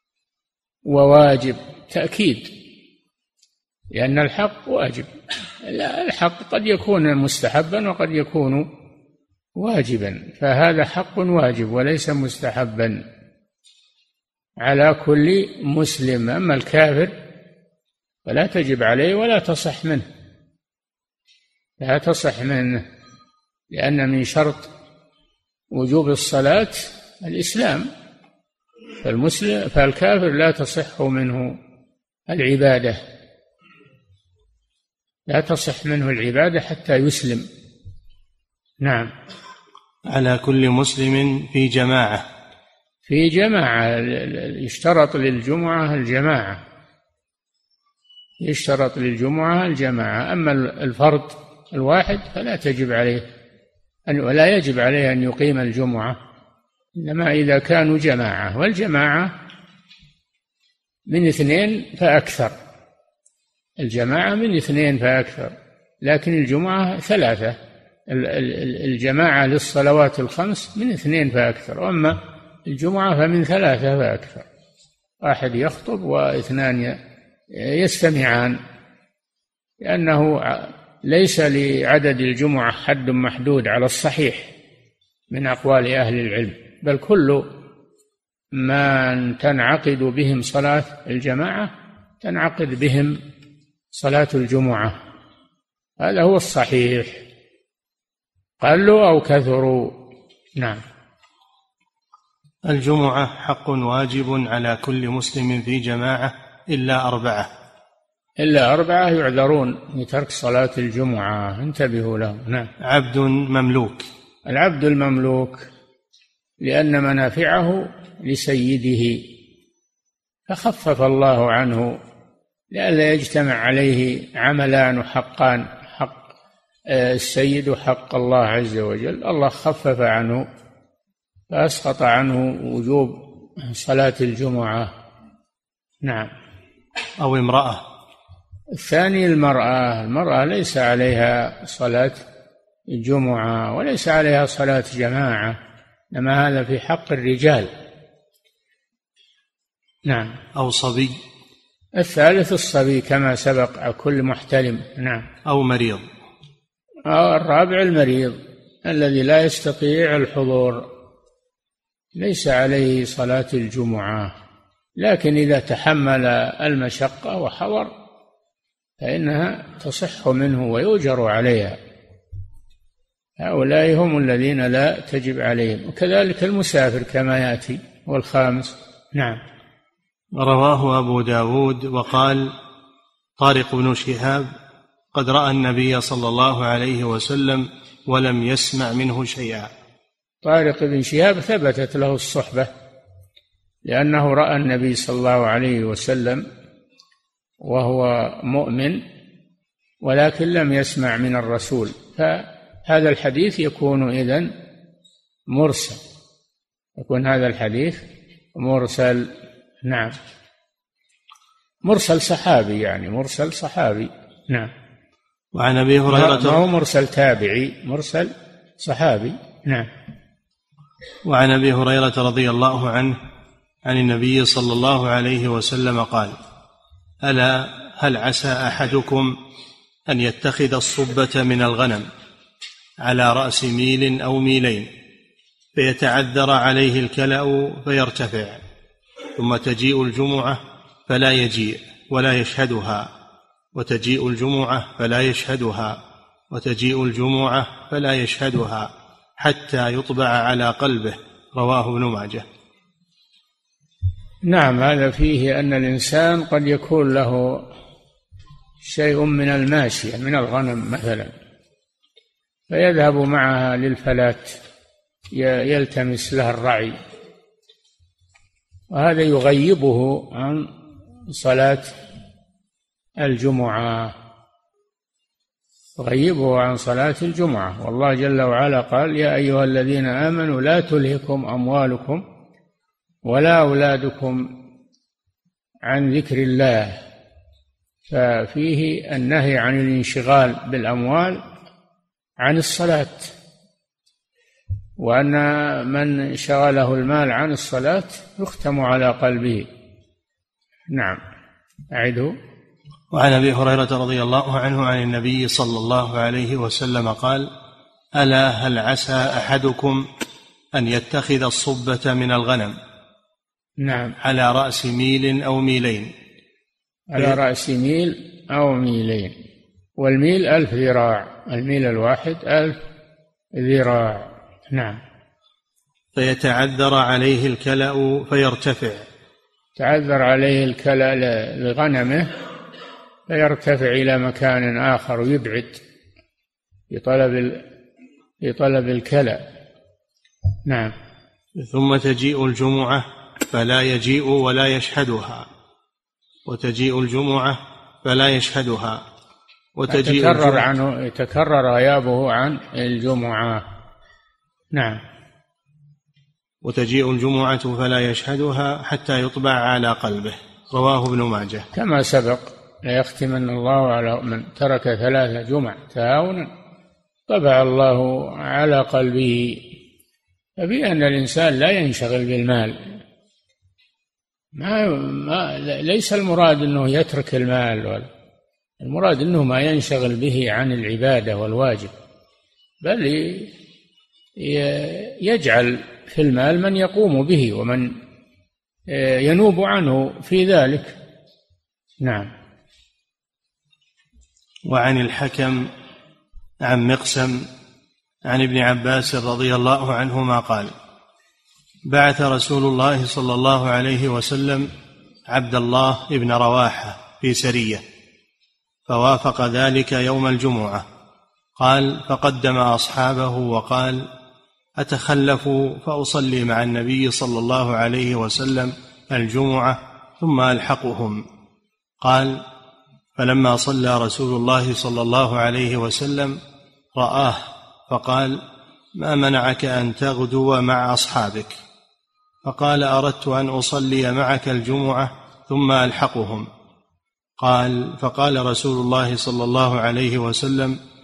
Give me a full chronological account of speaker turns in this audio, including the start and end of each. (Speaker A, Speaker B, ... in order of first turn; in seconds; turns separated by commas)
Speaker A: 0.9-2.5, Speaker A: 3.9-8.7, Speaker A: 9.6-13.0, Speaker A: 14.6-17.1, Speaker A: 18.3-20.1, Speaker A: 21.8-22.9, Speaker A: 23.7-24.7, Speaker A: 25.7-27.9, Speaker A: 29.0-31.6, Speaker A: 32.3-33.0, Speaker A: 35.3-37.5, Speaker A: 38.8-39.1, Speaker B: 40.1-42.2, Speaker A: 43.1-46.6, Speaker A: 48.4-53.2, Speaker A: 54.1-56.2, Speaker A: 57.0-59.3, Speaker A: 61.1-62.5, Speaker A: 63.8-67.6, Speaker A: 68.1-74.5, Speaker A: 75.2-77.0, Speaker A: 77.5-78.6, Speaker A: 79.8-84.5, Speaker A: 85.3-87.4, Speaker A: 88.6-93.2, Speaker A: 93.9-95.0, Speaker A: 96.0-97.2, Speaker A: 98.6-100.0, Speaker A: 100.6-100.8, Speaker B: 102.7-107.5, Speaker A: 108.4-112.7, Speaker B: 112.8-114.1, Speaker A: 114.5-115.7, Speaker A: 116.6-119.2, Speaker A: 120.5-122.0, Speaker A: 122.7-126.2, Speaker A: 126.9-130.4, Speaker A: 131.5-134.9, Speaker A: 136.0-136.3, Speaker B: 137.2-137.8, Speaker A: 138.8-142.2, Speaker A: 142.9-145.6, Speaker A: 146.1-147.7, Speaker A: 150.1-150.4, Speaker B: 150.5-151.2, Speaker A: 152.0-155.3, Speaker B: 155.4-156.1, Speaker A: 157.1-160.9, Speaker A: 162.2-164.3, Speaker A: 165.0-167.9, Speaker A: 169.0-171.8, Speaker A: 173.4-179.4, Speaker B: 180.3-182.5, Speaker B: 183.4-184.5, Speaker B: 185.1-189.7, Speaker A: 190.4-192.7, Speaker A: 193.9-196.4, Speaker A: 197.6-199.0, Speaker A: 200.0-204.5, Speaker A: 205.5-206.0, Speaker A: 207.0-208.0, Speaker A: 208.6-209.3, Speaker A: 209.8-210.2, Speaker A: 211.8-214.7, Speaker B: 215.5-216.6, Speaker A: 216.1-219.9, Speaker B: 221.2-223.2, Speaker B: 223.8-226.4, Speaker B: 227.2-229.3, Speaker B: 230.1-232.1, Speaker B: 233.0-234.9, Speaker B: 235.8-238.6, Speaker B: 239.4-243.1, Speaker B: 243.8-246.0, Speaker B: 246.5-252.5, Speaker A: 254.5-257.7, Speaker A: 258.8-261.3, Speaker A: 262.7-264.6, Speaker A: 265.3-267.0, Speaker A: 268.9-270.7, Speaker A: 271.3-272.0, Speaker A: 273.2-274.1, Speaker A: 276.0-282.2, Speaker A: 283.3-284.5, Speaker A: 285.9-287.0, Speaker A: 288.1-291.4, Speaker A: 292.4-293.4, Speaker A: 295.0-299.7, Speaker A: 300.9-301.2, Speaker A: 301.9-302.4, Speaker B: 303.1-307.5, Speaker B: 308.2-310.1, Speaker B: 310.8-312.8, Speaker A: 313.8-314.1, Speaker B: 314.2-316.1, Speaker A: 317.1-319.4, Speaker A: 320.0-322.8, Speaker A: 323.6-325.0, Speaker B: 326.1-329.1, Speaker A: 329.8-332.3, Speaker A: 333.3-335.8, Speaker A: 336.9-337.6, Speaker A: 338.4-339.4, Speaker A: 340.7-340.9, Speaker B: 341.6-345.5, Speaker B: 346.5-349.0, Speaker B: 349.8-350.6, Speaker A: 349.9-353.6, Speaker A: 354.7-355.0, Speaker B: 356.6-361.7, Speaker A: 361.7-366.5, Speaker A: 367.3-369.7, Speaker A: 370.6-373.0, Speaker A: 374.6-378.1, Speaker A: 378.8-381.9, Speaker A: 382.8-383.5, Speaker A: 384.4-387.9, Speaker A: 388.9-391.0, Speaker A: 392.0-392.3, Speaker B: 394.7-395.7, Speaker B: 396.6-397.5, Speaker B: 398.3-400.7, Speaker B: 401.9-404.7, Speaker B: 405.3-407.8, Speaker B: 408.9-410.9, Speaker B: 411.6-414.1, Speaker B: 414.8-421.2, Speaker B: 422.0-422.4, Speaker B: 423.2-426.4, Speaker B: 427.0-428.4, Speaker B: 429.0-431.6, Speaker B: 432.4-436.5, Speaker B: 437.4-440.8